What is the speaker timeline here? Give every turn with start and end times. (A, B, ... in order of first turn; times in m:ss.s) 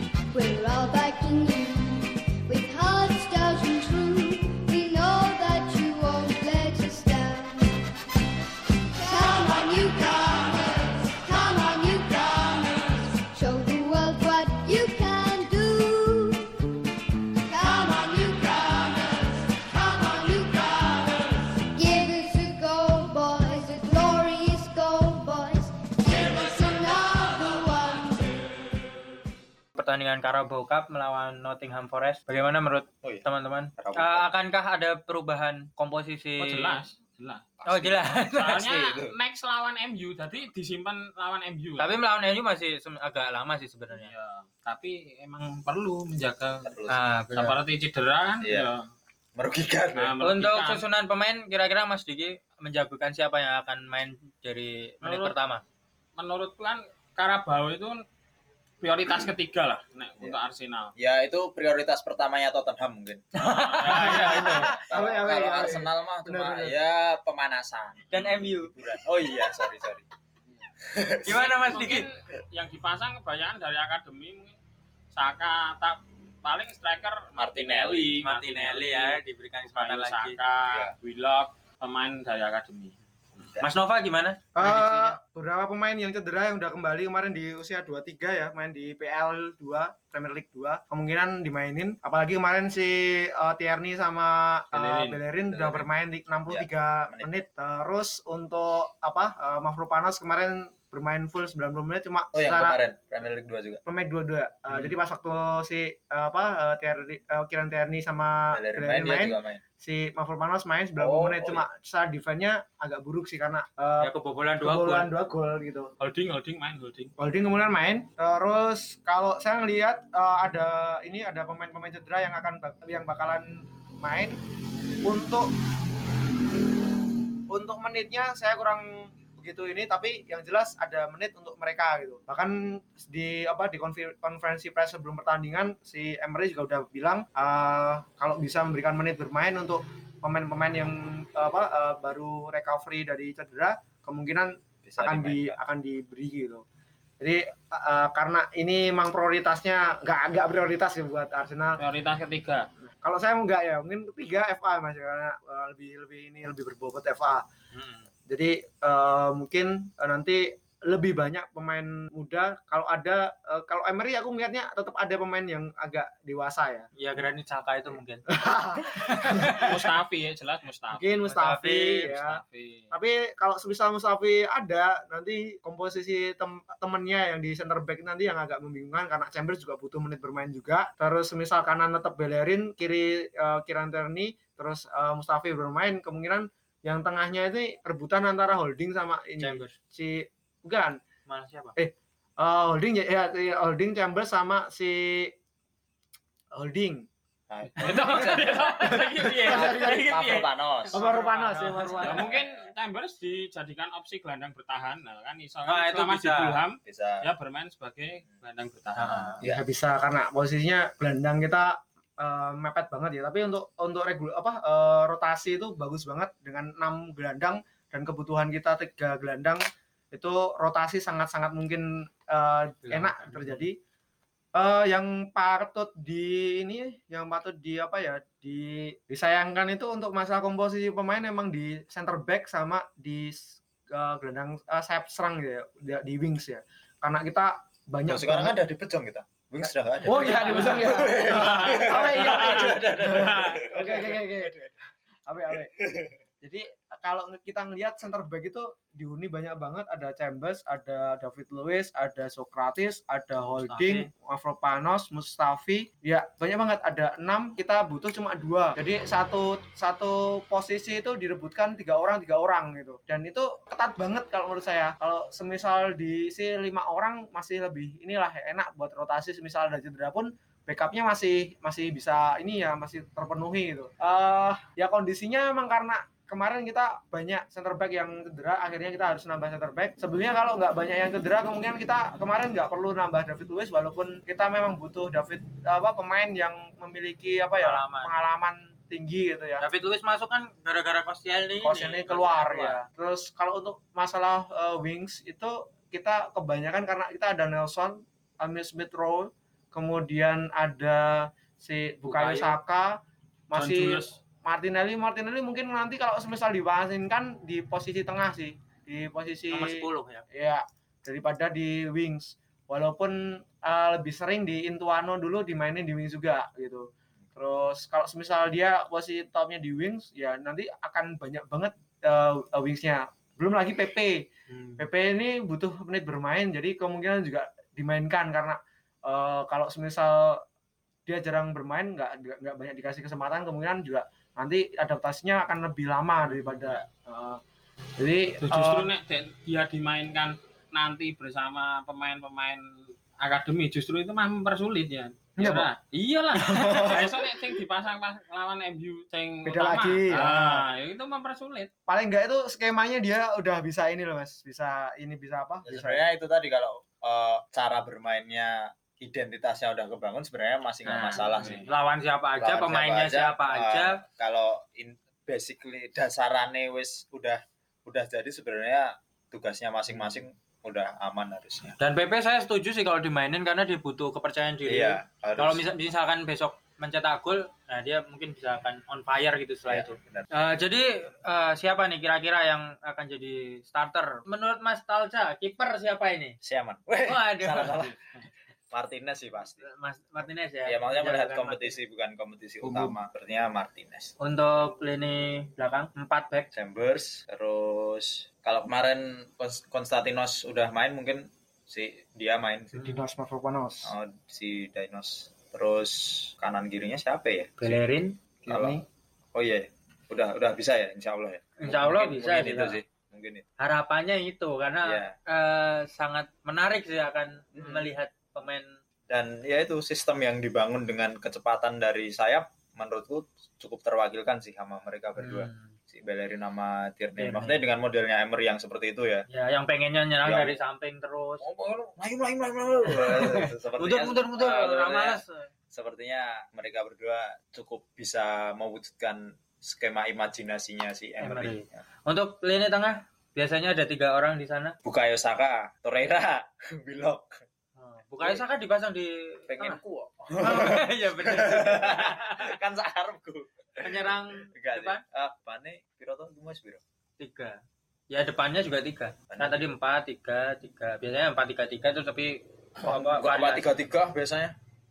0:00.3-0:07.8 A
0:09.0-0:28.5 A
0:29.8-0:36.8 B
0:33.8-0:34.3 C
0:36.4-0:37.6 D
0:37.6-0:38.1 C
0:37.7-0:38.7 B
0:38.3-0:41.9 D
0:38.7-0:39.2 C
0:41.8-0:44.1 B
0:43.9-0:46.8 D
0:46.6-0:47.0 C
0:46.9-0:47.6 B
0:47.3-0:48.9 D
0:48.4-0:48.7 C
0:49.4-0:50.2 C
0:50.0-0:50.9 D
0:50.2-0:55.6 B
0:55.0-0:55.4 D
0:56.2-0:58.0 D
0:58.8-1:00.9 D
1:01.0-1:03.2 C
1:03.4-1:04.8 B
1:03.4-1:04.7 D
1:04.1-1:06.8 E
1:04.9-1:10.0 C
1:08.1-1:08.7 B
1:10.8-1:11.6 C
1:11.2-1:12.1 B
1:11.7-1:14.6 D
1:15.1-1:22.9 D
1:17.4-1:18.2 C
1:18.2-1:20.4 B
1:23.4-1:23.7 C
1:23.6-1:25.2 B
1:24.6-1:42.8 E
1:34.7-1:35.2 D
1:35.5-1:35.9 C
1:36.5-1:37.3 C
1:42.4-1:43.8 C
1:43.8-1:55.9 E
1:48.5-1:49.6 C
1:51.0-1:51.7 C
1:54.0-1:55.1 B
1:56.0-1:57.1 D
1:57.2-2:04.4 E
2:05.0-2:05.5 E
2:07.5-2:26.6 E
2:24.8-2:25.6 C
2:27.2-2:31.8 E
2:31.8-2:32.7 D
2:33.0-2:37.4 E
2:37.7-2:38.1 B
2:38.3-2:46.9 E
2:47.0-2:48.2 B
2:48.3-2:49.7 E
2:49.2-2:49.6 B
2:49.6-2:51.2 D
2:50.9-3:11.0 E
2:51.3-2:52.2 B
2:52.3-2:52.9 D
3:09.4-3:09.7 B
3:11.3-3:11.8 B
3:11.8-3:15.3 E
3:16.5-3:17.1 E
3:17.5-3:21.0 C
3:17.7-3:20.5 D
3:19.0-3:20.0 E
3:20.9-3:22.3 E
3:20.9-3:22.3 B
3:22.0-3:29.4 D
3:22.3-3:22.7 C
3:25.6-3:26.6 B
3:26.8-3:27.2 C
3:29.0-3:29.4 B
3:29.4-3:43.8 E
3:42.8-3:43.7 B
3:44.5-3:58.6 E
3:58.1-4:04.7 C
4:00.0-4:04.5 E
4:01.4-4:02.7 D
4:05.3-4:05.7 E
4:05.8-4:06.2 C
4:06.4-4:49.6 E
4:13.6-4:14.1 B
4:47.5-4:48.1 B
4:49.6-4:52.8 B
4:51.6-5:03.0 E
5:02.1-5:02.6 B
5:03.5-5:24.2 E
5:03.5-5:04.2 D
5:09.5-5:10.2 B
5:24.5-5:24.9 B
5:24.8-5:30.4 E
5:31.1-5:37.4 E
5:38.0-5:38.9 E
5:38.4-5:42.6 D
5:43.2-5:51.7 D
5:45.4-5:45.7 E
5:46.4-5:47.1 E
5:49.4-5:50.6 E
5:51.9-5:56.0 E
5:55.6-6:01.6 C
6:00.9-6:04.0 B
6:00.9-6:01.7 D
6:02.4-6:11.8 C
6:09.9-6:10.2 B
6:11.8-6:26.4 B
6:14.6-6:15.6 C
6:19.7-6:20.3 C
6:26.4-6:28.0 C
6:27.0-6:28.0 B
6:28.7-6:29.7 C
6:29.6-6:31.8 B
6:30.6-6:34.1 C
6:32.6-6:33.0 B
6:34.2-6:36.5 B
6:36.5-6:42.8 C
6:42.8-6:43.0 B
6:42.8-6:43.9 E
6:43.8-6:47.8 C
6:47.6-6:48.2 B
6:48.4-6:48.8 E
6:48.5-6:48.8 C
6:49.3-6:53.4 C
6:51.6-6:52.8 B
6:53.6-6:58.8 B
6:54.8-6:55.2 C
6:57.6-6:57.9 C
6:59.1-7:09.3 C
7:05.2-7:05.7 B
7:07.2-7:07.6 B
7:09.3-7:11.5 B
7:10.2-7:10.6 C
7:11.4-7:21.8 C
7:12.9-7:15.5 B
7:21.2-7:24.8 B
7:24.8-7:27.4 C
7:27.8-7:29.8 B
7:29.5-7:36.8 C
7:30.4-7:32.6 B
7:33.8-7:35.0 B
7:37.2-7:43.8 B
7:39.3-7:39.7 C
7:42.8-7:44.6 C